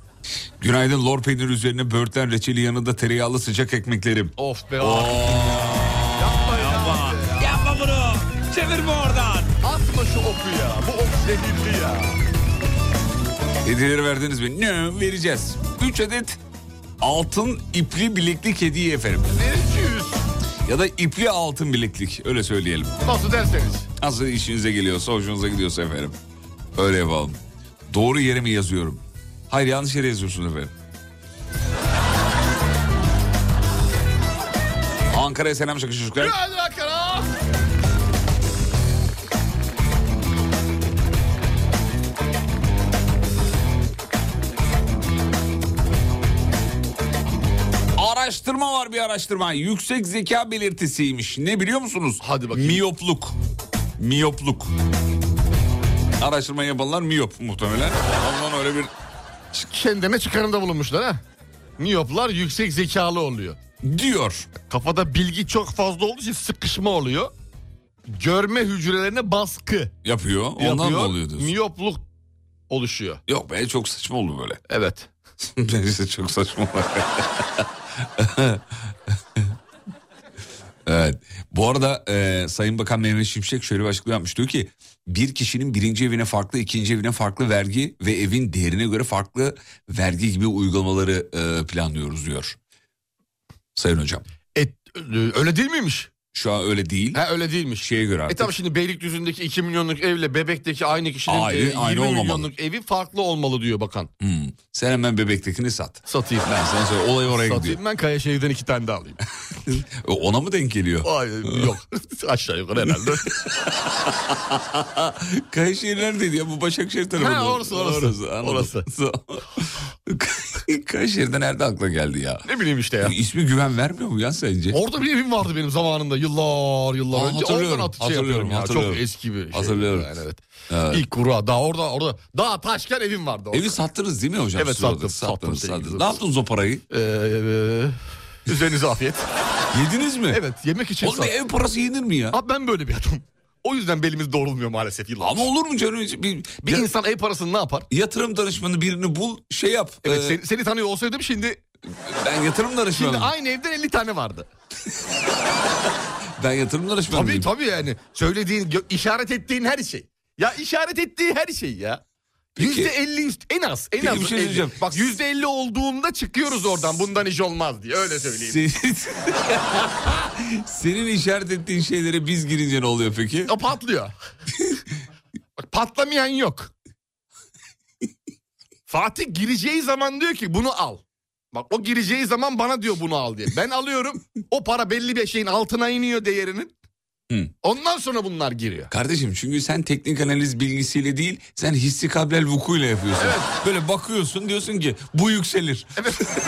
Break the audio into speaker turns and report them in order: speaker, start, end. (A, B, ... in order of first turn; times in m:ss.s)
0:00.6-0:09.6 A
0:04.4-0:07.7 B
0:09.6-0:12.2 B
0:13.6-0:16.4 A
0:17.0-0:19.4 A
0:19.3-0:20.2 B
0:20.6-0:23.0 A
0:23.0-0:23.9 B
0:24.0-0:26.2 A
0:26.7-0:30.7 A
0:35.1-0:36.4 A
0:36.2-0:37.3 B
0:48.0-0:53.3 A
0:52.2-0:52.8 B
0:54.0-0:54.7 A
0:56.2-0:58.9 A
0:59.5-1:01.2 B
1:01.8-1:03.6 B
1:03.8-1:04.5 A
1:04.6-1:07.3 B
1:08.1-1:09.9 B
1:10.0-1:11.5 A
1:10.6-1:12.0 B
1:12.7-1:13.2 B
1:13.3-1:14.6 A
1:14.7-1:15.1 B
1:15.5-1:19.5 A
1:20.8-1:32.6 A
1:33.7-1:34.2 A
1:34.5-1:36.1 B
1:36.3-1:37.2 A
1:37.1-1:44.1 B
1:37.8-1:38.5 A
1:41.3-1:42.5 A
1:44.2-1:47.8 A
1:46.1-1:46.5 B
1:47.3-1:49.2 B
1:49.6-1:51.7 A
1:51.0-1:53.3 B
1:53.1-2:02.4 A
1:57.2-1:58.8 B
2:02.4-2:03.1 B
2:03.0-2:04.8 A
2:04.7-2:13.8 B
2:07.1-2:10.1 A
2:10.7-2:11.0 A
2:13.5-2:16.8 A
2:14.5-2:16.2 B
2:16.9-2:19.3 B
2:19.7-2:20.4 A
2:20.3-2:21.3 B
2:21.0-2:22.4 A
2:22.3-2:25.5 B
2:25.2-2:26.9 A
2:26.6-2:27.9 B
2:27.9-2:30.4 A
2:30.0-2:31.6 B
2:31.9-2:33.3 A
2:32.9-2:34.5 B
2:36.4-2:37.5 A
2:37.1-2:42.0 B
2:42.6-2:42.9 A
2:42.6-2:48.6 B
2:44.0-2:44.9 A
2:48.4-2:53.5 A
2:53.5-2:54.1 B
2:55.6-2:56.7 B
2:58.9-3:06.7 B
3:07.6-3:08.9 B
3:08.9-3:16.1 A
3:13.2-3:13.5 B
3:16.0-3:16.3 B